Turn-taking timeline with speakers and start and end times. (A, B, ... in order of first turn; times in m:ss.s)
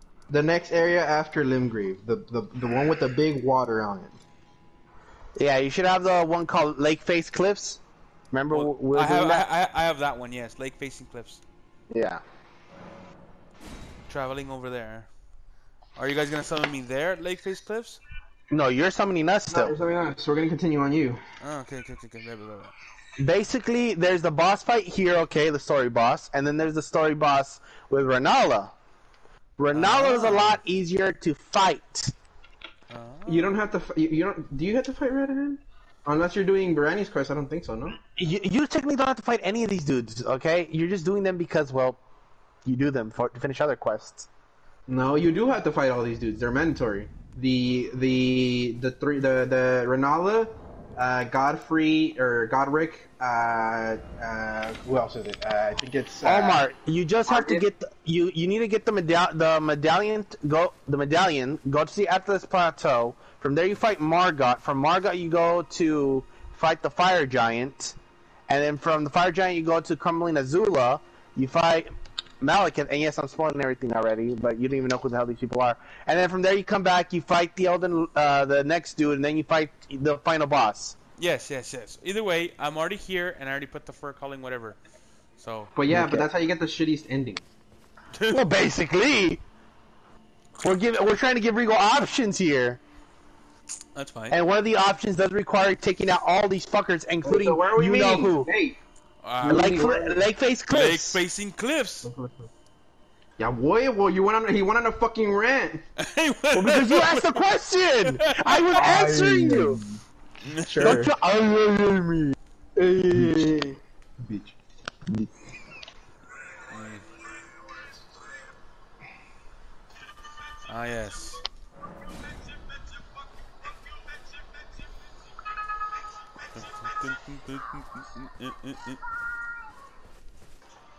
0:00.3-0:04.2 A
0:05.4-0:07.8 B
0:08.3-0:09.5 B
0:08.5-0:11.4 C
0:11.9-0:12.2 B
0:14.1-0:15.1 C
0:16.0-0:18.0 C
0:18.5-0:19.7 B
0:19.5-0:21.2 A
0:21.4-0:22.7 C
0:23.2-0:28.7 B
0:29.6-0:32.1 B
0:29.7-0:30.6 C
0:32.9-0:33.6 C
0:33.3-0:38.0 A
0:38.2-0:42.0 B
0:42.6-0:44.3 B
0:44.9-0:56.6 A
0:56.2-1:08.0 B
0:57.3-0:57.6 A
1:08.5-1:11.9 B
1:12.4-1:21.0 B
1:21.2-1:24.8 C
1:25.4-1:25.7 C
1:25.8-1:27.4 A
1:25.9-1:26.3 B
1:28.2-1:28.4 C
1:28.3-1:29.4 B
1:30.6-1:32.8 B
1:33.9-1:34.4 C
1:34.3-1:38.5 B
1:37.2-1:38.8 A
1:39.2-1:39.8 C
1:39.4-1:40.2 A
1:39.5-1:41.2 B
1:40.7-1:42.1 C
1:42.0-1:42.5 A
1:43.4-1:45.8 A
1:46.0-1:47.5 C
1:46.5-1:49.8 B
1:48.0-1:49.1 C
1:48.7-1:50.0 A
1:50.4-1:51.0 C
1:50.6-1:51.1 A
1:50.8-1:52.4 B
1:52.8-1:54.6 A
1:53.1-1:53.5 B
1:56.7-1:57.1 C
2:00.7-2:01.4 C
2:06.5-2:09.0 C